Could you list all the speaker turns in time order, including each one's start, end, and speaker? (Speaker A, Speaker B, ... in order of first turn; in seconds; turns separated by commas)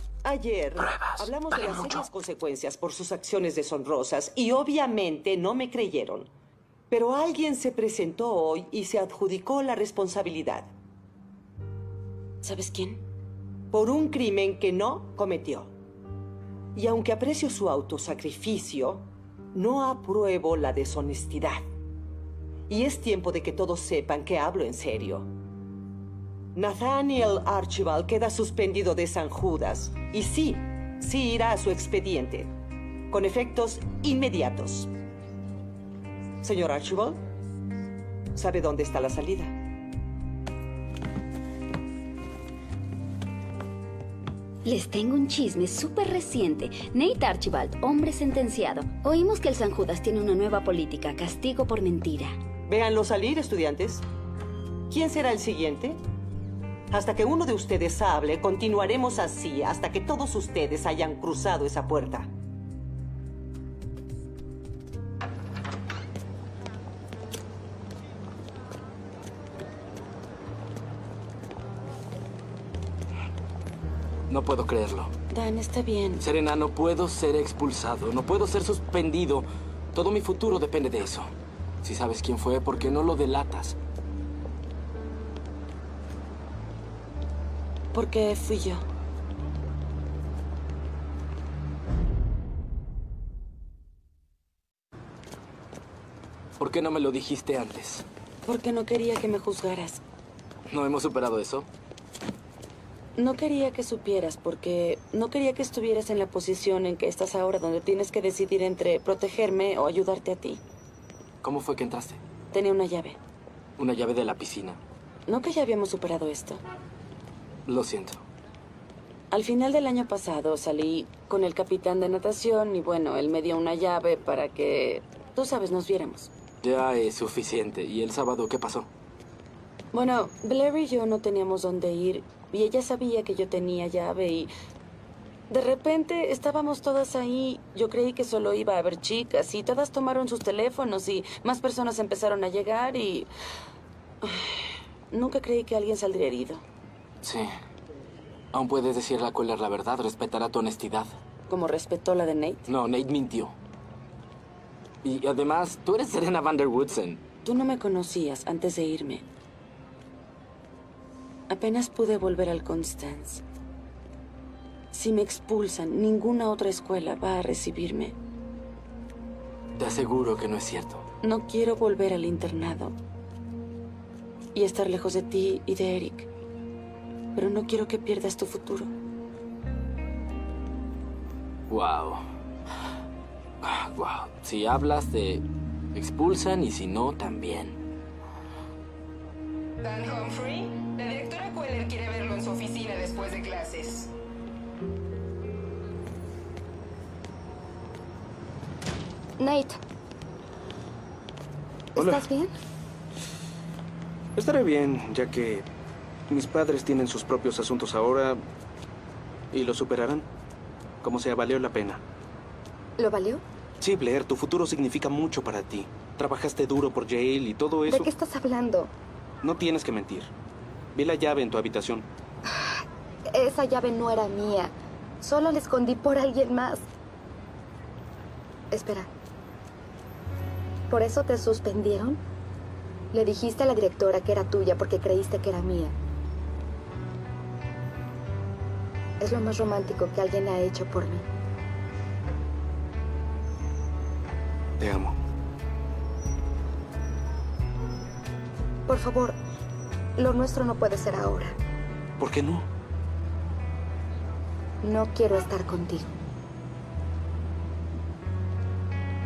Speaker A: 0.2-6.3, Speaker B: 0.9-1.9, Speaker A: 6.9-10.7, Speaker C: 12.4-13.0, Speaker A: 13.7-15.7, Speaker A: 16.8-21.6, Speaker A: 22.7-25.3, Speaker A: 26.5-32.5, Speaker A: 33.1-34.9, Speaker A: 36.4-37.2, Speaker A: 38.3-39.5, Speaker D: 44.6-52.3, Speaker A: 52.7-54.0, Speaker A: 54.9-56.0, Speaker A: 56.9-62.3, Speaker B: 74.3-75.1, Speaker C: 75.3-76.2, Speaker B: 76.2-83.8, Speaker C: 87.9-88.8, Speaker B: 96.6-98.0, Speaker C: 98.4-100.0, Speaker B: 100.7-101.7, Speaker C: 103.2-110.6, Speaker B: 111.4-112.2, Speaker C: 112.5-113.2, Speaker B: 113.8-114.8, Speaker C: 115.3-116.6, Speaker B: 117.7-118.2, Speaker C: 119.3-126.3, Speaker B: 126.6-128.9, Speaker C: 129.9-134.5, Speaker C: 135.5-143.3, Speaker C: 144.2-144.6, Speaker C: 145.1-146.6, Speaker B: 147.2-147.5, Speaker B: 148.5-151.1, Speaker C: 151.5-152.7, Speaker B: 152.7-153.5, Speaker B: 155.0-157.2, Speaker C: 157.4-159.2, Speaker C: 161.5-163.4, Speaker C: 164.9-168.1, Speaker B: 169.8-171.0, Speaker C: 171.2-172.9, Speaker C: 174.5-176.3, Speaker C: 177.3-178.9, Speaker B: 181.7-182.2, Speaker B: 183.6-187.8, Speaker E: 189.9-194.0, Speaker D: 199.4-199.8, Speaker D: 201.9-202.5, Speaker F: 202.0-202.2, Speaker F: 204.3-205.7, Speaker F: 206.3-208.4, Speaker F: 209.5-210.3, Speaker F: 211.0-212.0, Speaker D: 213.0-213.4, Speaker F: 213.8-218.1, Speaker D: 217.9-218.9, Speaker F: 219.4-220.3, Speaker F: 220.9-222.1, Speaker D: 222.5-226.9, Speaker D: 228.7-229.1, Speaker D: 230.9-232.2, Speaker D: 233.1-235.9, Speaker D: 239.2-241.2, Speaker F: 244.8-245.2, Speaker D: 248.9-249.4, Speaker D: 250.2-251.5, Speaker F: 252.2-252.7, Speaker D: 254.8-256.1